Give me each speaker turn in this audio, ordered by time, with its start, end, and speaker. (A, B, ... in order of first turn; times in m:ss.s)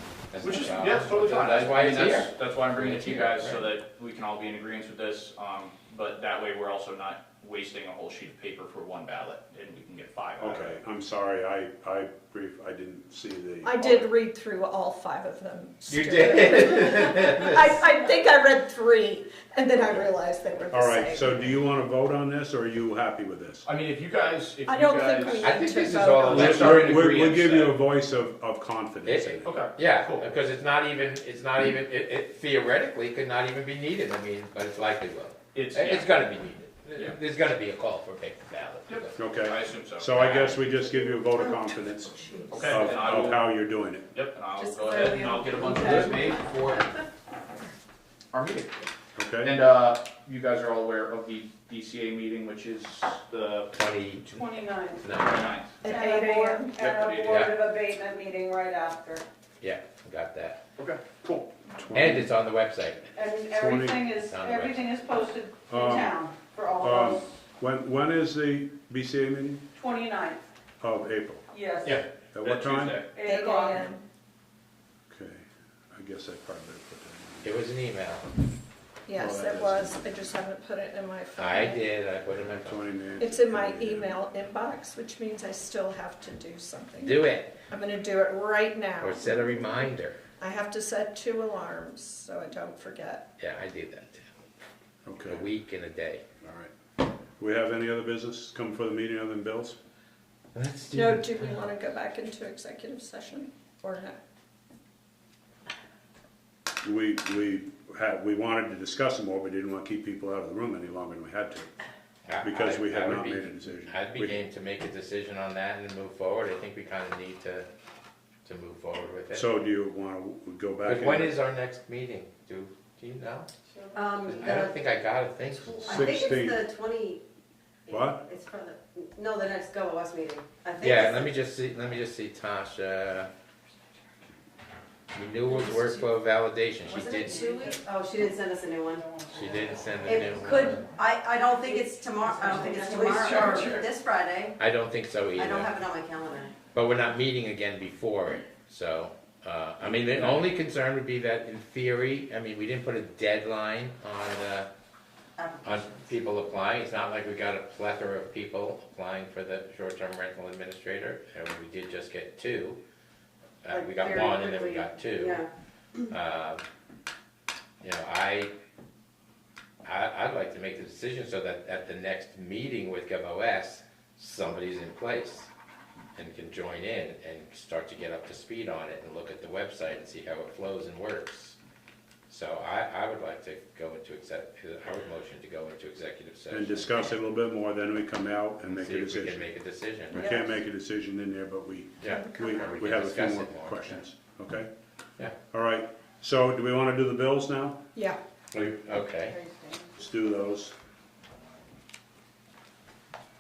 0:00.3-0:03.7 A
0:00.4-0:10.8 B
0:10.4-0:14.1 C
0:13.6-0:21.4 D
0:15.9-0:17.8 A
0:20.7-0:23.7 C
0:23.6-0:25.6 B
0:24.7-0:26.7 D
0:25.4-0:27.1 A
0:26.1-0:27.8 B
0:26.3-0:29.6 C
0:29.1-0:39.2 A
0:29.4-0:30.4 B
0:35.5-0:36.1 B
0:38.9-0:40.6 B
0:39.2-0:44.1 C
0:40.2-0:40.6 A
0:41.4-0:43.2 E
0:42.5-0:43.5 B
0:44.1-0:46.8 B
0:44.6-0:46.8 E
0:48.3-0:48.8 B
0:49.2-0:49.6 C
0:49.4-0:53.7 B
0:53.7-0:55.5 A
0:54.4-0:55.1 F
0:55.1-0:55.8 B
0:55.8-0:56.8 D
0:55.8-0:59.2 F
0:56.8-0:57.5 B
0:57.3-0:57.5 A
0:59.6-1:00.6 A
1:00.8-1:01.5 B
1:01.7-1:02.3 C
1:01.9-1:03.1 A
1:03.2-1:07.3 F
1:03.6-1:04.1 C
1:04.2-1:04.9 A
1:05.7-1:06.2 C
1:06.8-1:09.6 C
1:09.8-1:10.4 F
1:10.8-1:11.4 C
1:11.5-1:12.0 F
1:11.8-1:13.1 B
1:12.3-1:13.0 C
1:13.2-1:13.9 F
1:13.2-1:14.0 D
1:15.1-1:17.6 C
1:17.4-1:18.3 A
1:19.1-1:21.8 D
1:19.2-1:20.0 C
1:21.4-1:22.8 A
1:22.6-1:24.2 C
1:23.2-1:29.8 D
1:27.0-1:27.6 A
1:29.0-1:30.2 A
1:30.4-1:33.3 D
1:33.4-1:34.3 A
1:35.1-1:35.5 C
1:35.2-1:36.2 A
1:36.4-1:36.7 C
1:37.4-1:39.8 C
1:40.6-1:41.6 A
1:40.9-1:44.2 D
1:46.8-1:51.7 C
1:52.3-1:57.7 A
1:52.4-1:54.4 C
1:58.4-1:59.5 A
1:59.3-2:01.4 C
2:00.8-2:03.5 A
2:03.9-2:04.8 E
2:04.2-2:06.1 A
2:05.8-2:07.2 E
2:05.9-2:06.6 C
2:07.9-2:11.3 E
2:07.9-2:08.2 C
2:10.8-2:13.3 A
2:15.1-2:17.5 A
2:16.9-2:19.2 E
2:19.3-2:20.9 A
2:20.1-2:24.6 E
2:22.4-2:23.8 F
2:24.6-2:25.7 A
2:25.4-2:26.6 E
2:26.7-2:34.7 A
2:29.8-2:30.4 C
2:35.4-2:36.2 E
2:35.6-2:42.8 A
2:43.6-2:45.4 A
2:43.7-2:45.5 E
2:46.1-2:46.6 A
2:47.8-2:48.5 A
2:49.8-2:55.5 A
2:56.2-3:01.6 A
3:02.3-3:07.1 A
3:06.5-3:09.5 C
3:08.7-3:10.4 A
3:10.1-3:14.7 C
3:12.0-3:14.0 A
3:15.5-3:17.8 C
3:18.5-3:19.4 A
3:20.0-3:20.7 C